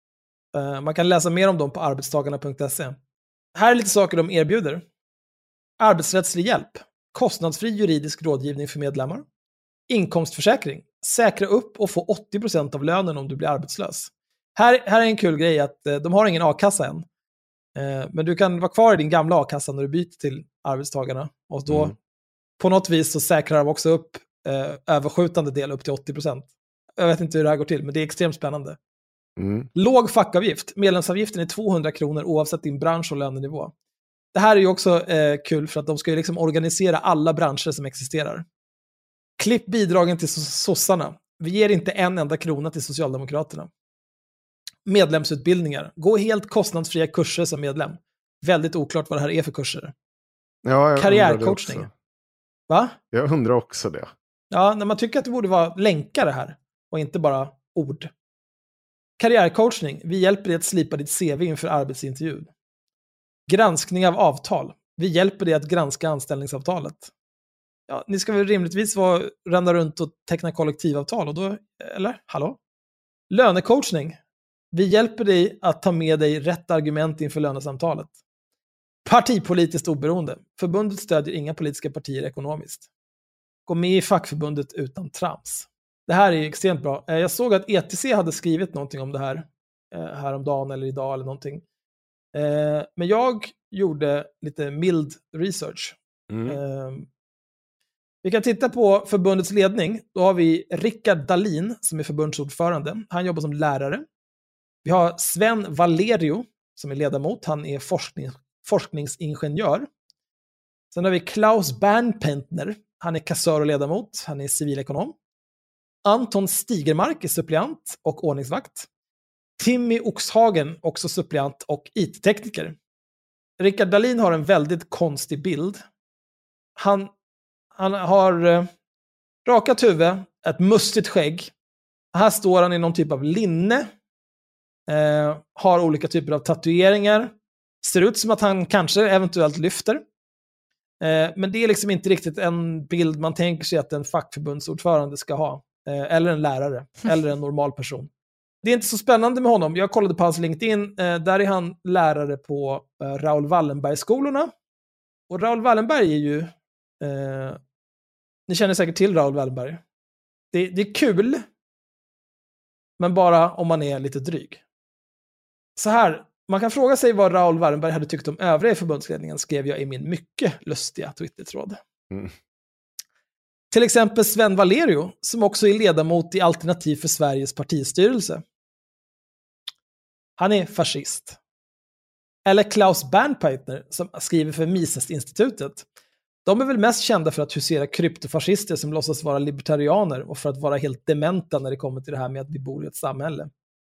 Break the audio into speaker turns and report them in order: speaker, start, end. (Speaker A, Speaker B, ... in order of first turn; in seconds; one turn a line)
Speaker A: 0.5-3.0
Speaker A: 3.5-4.8
Speaker A: 5.8-9.2
Speaker A: 9.9-17.0
Speaker A: 17.8-21.9
Speaker B: 21.7-21.9
Speaker A: 22.6-28.8
Speaker B: 29.4-29.7
Speaker A: 29.7-33.7
Speaker A: 34.3-38.4
Speaker A: 39.4-43.7
Speaker A: 44.9-49.9
Speaker B: 50.6-51.9
Speaker A: 51.0-51.9
Speaker A: 52.7-53.0
Speaker B: 53.1-54.1
Speaker A: 54.5-58.1
Speaker A: 59.2-62.5
Speaker A: 63.5-67.1
Speaker A: 67.9-72.6
Speaker A: 73.3-74.2
Speaker A: 74.7-78.1
Speaker A: 79.0-82.9
Speaker A: 83.7-91.6
Speaker A: 92.3-97.1
Speaker B: 96.3-96.6
Speaker A: 98.2-104.0
Speaker A: 104.8-109.9
Speaker A: 110.9-115.1
Speaker A: 116.0-118.9
Speaker A: 119.6-122.8
Speaker A: 123.6-125.8
Speaker A: 126.8-127.1
Speaker A: 127.8-128.7
Speaker A: 129.4-131.5
Speaker A: 132.1-133.9
Speaker A: 134.9-140.0
Speaker A: 141.0-148.1
Speaker A: 148.6-154.5
Speaker A: 155.3-157.6
Speaker A: 158.5-159.8
Speaker A: 160.5-161.4
Speaker A: 163.0-164.6
Speaker A: 165.8-171.8
Speaker A: 173.7-178.4
Speaker A: 180.4-181.4
Speaker A: 182.4-185.8
Speaker A: 186.4-193.5